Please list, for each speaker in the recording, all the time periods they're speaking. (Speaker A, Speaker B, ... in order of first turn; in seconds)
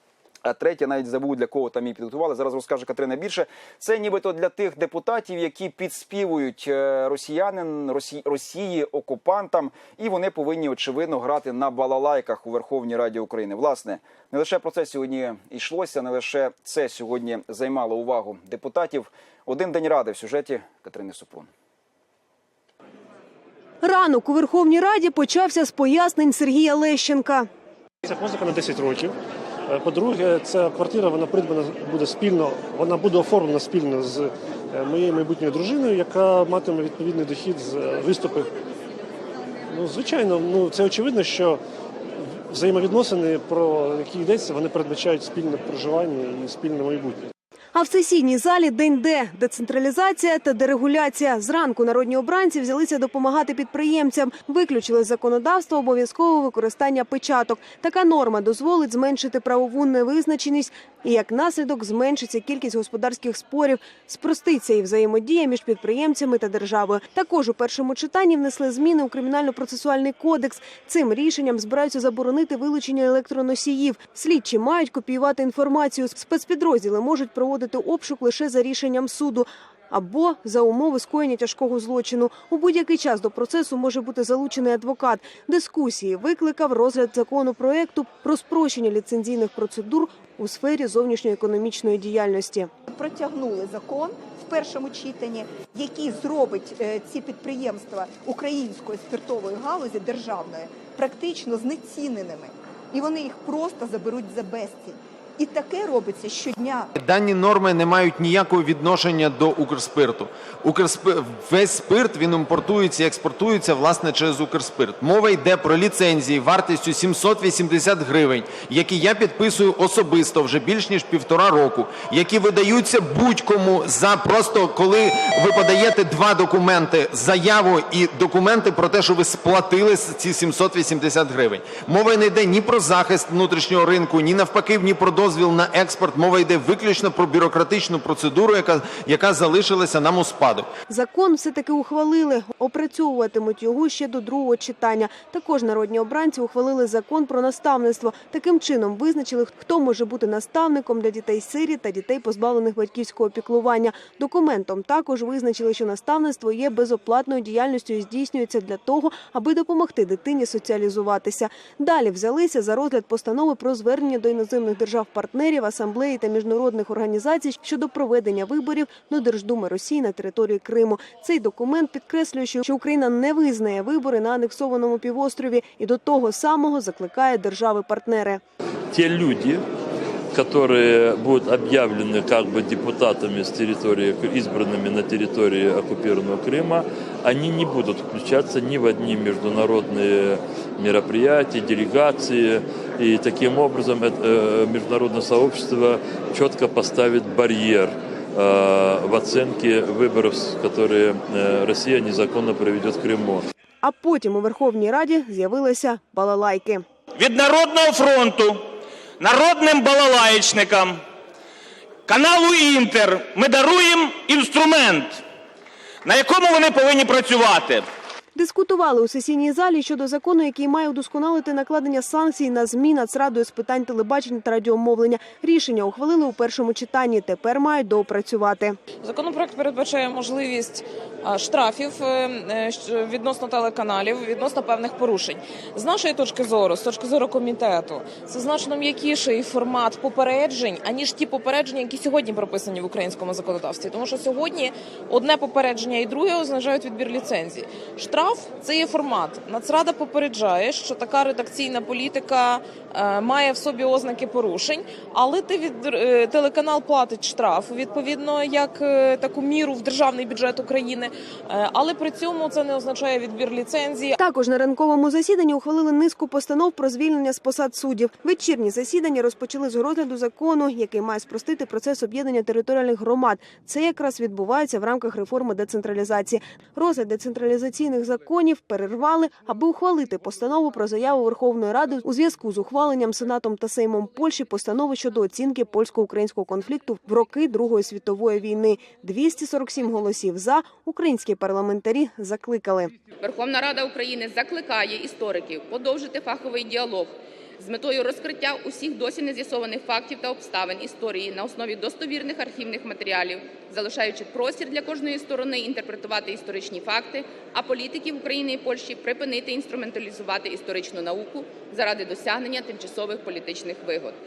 Speaker A: 0.4-21.5
Speaker B: 23.8-27.5, 47.7-92.7, 140.9-178.4, 203.8-206.8, 218.3-228.8, 264.2-292.9
Speaker C: 28.0-29.1, 29.7-38.5, 39.7-41.6, 42.5-47.3
Speaker D: 92.9-106.9
Speaker E: 107.0-140.7
Speaker F: 178.9-179.6, 180.3-203.5
Speaker G: 207.2-208.7, 209.2-211.0, 212.1-215.2, 216.0-217.8
Speaker H: 229.0-264.1
Speaker I: 293.2-314.2